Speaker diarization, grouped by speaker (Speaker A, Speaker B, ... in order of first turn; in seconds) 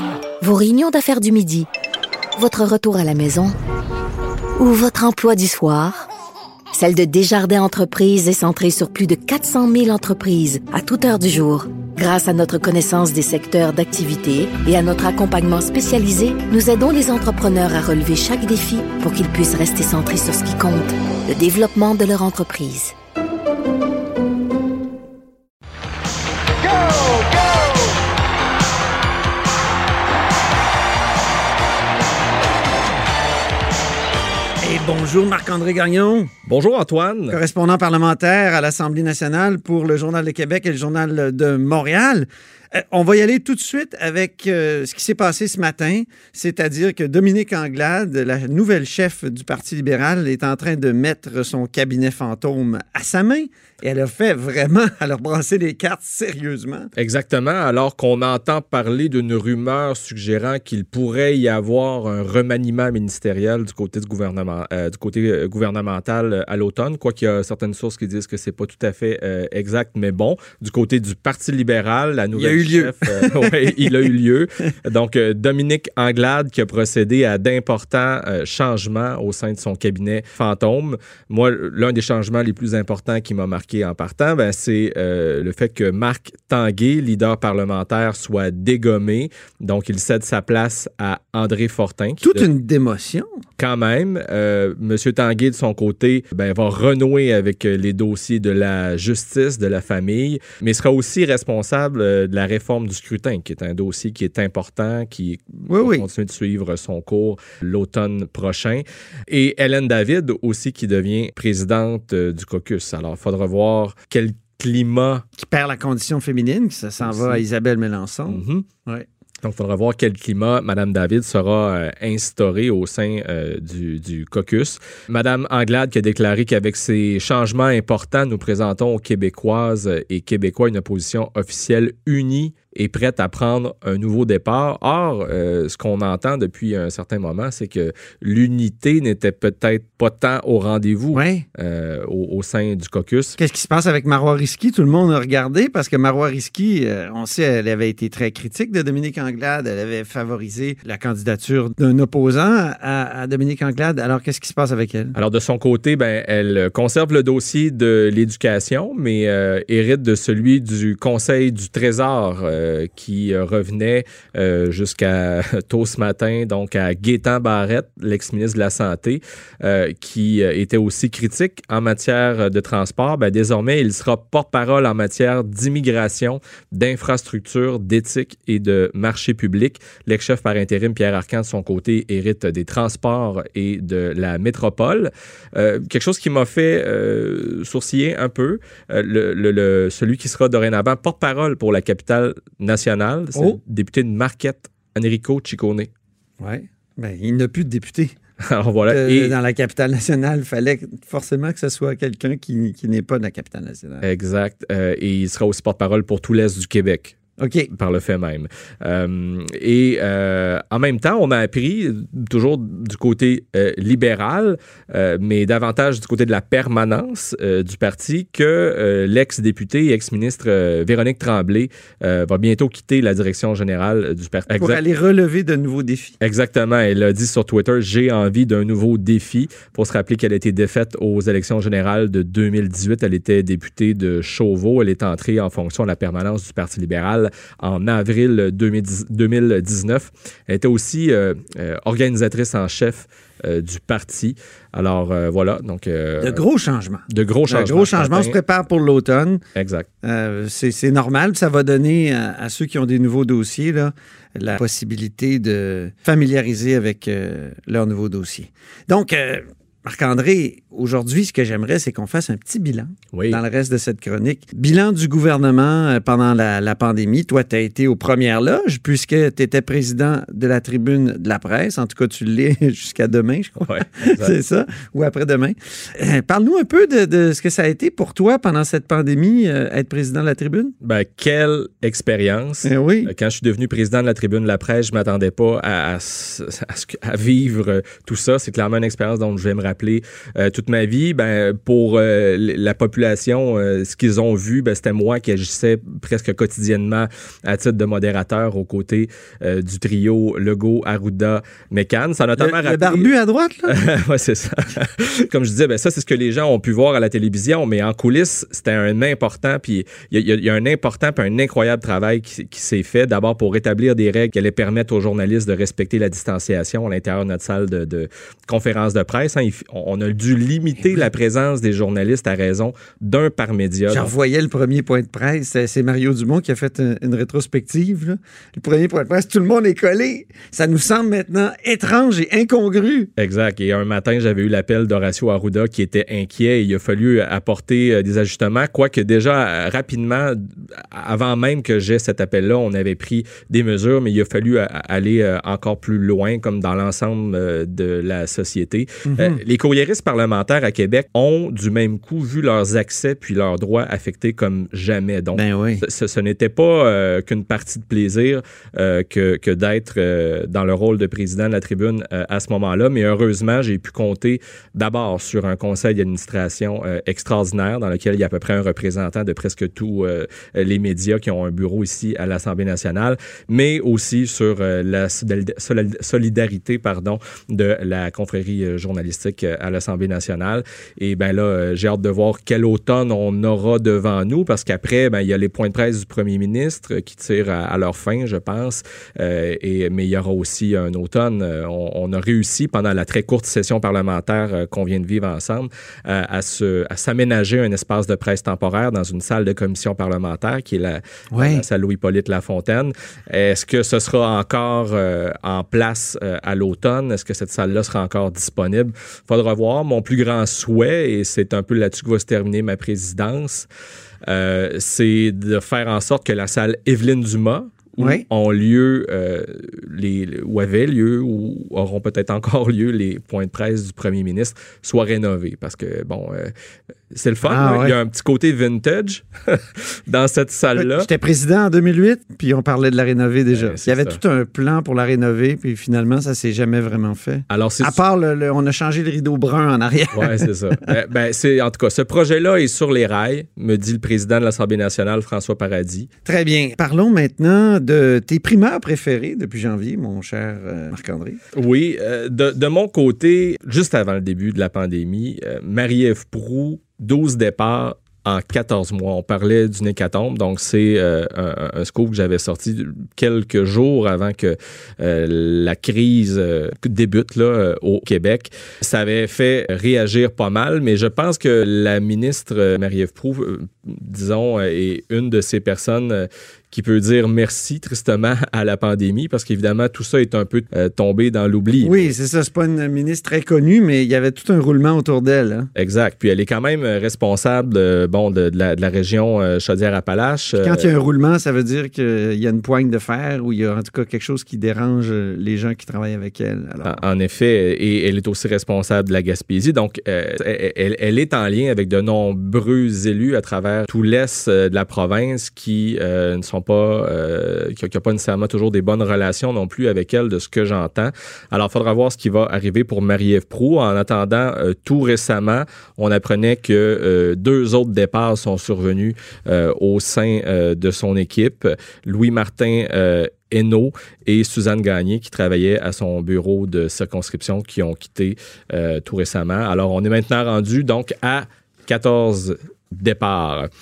Speaker A: 0.4-1.7, 2.4-3.5, 4.6-6.1, 6.8-22.9
Speaker B: 34.6-36.3, 37.3-56.9, 72.3-73.9, 92.2-93.4, 105.7-106.1, 115.4-119.1, 141.1-141.5, 143.4-155.2, 196.4-198.2, 198.8-204.1, 207.4-207.7, 224.5-226.2, 246.2-249.4, 250.0-280.7, 282.6-283.1, 302.4-303.8, 323.9-333.1, 349.1-349.4, 355.4-355.9, 401.3-401.6, 418.0-418.3, 427.4-428.0, 430.8-440.9, 446.2-451.4, 481.8-485.7, 490.6-497.0
Speaker C: 36.5-37.4, 57.0-92.5, 93.6-115.2, 117.0-117.4, 118.3-118.7, 119.4-143.4, 155.2-195.9, 198.5-199.4, 204.0-207.2, 207.7-224.8, 226.2-246.4, 247.1-248.4, 249.6-249.9, 263.1-263.4, 273.6-274.4, 280.8-303.1, 303.7-324.1, 333.2-413.7, 414.3-426.5, 427.1-431.1, 433.5-434.2, 437.5-438.0, 440.1-446.1, 451.5-482.1, 485.8-490.9, 496.8-533.7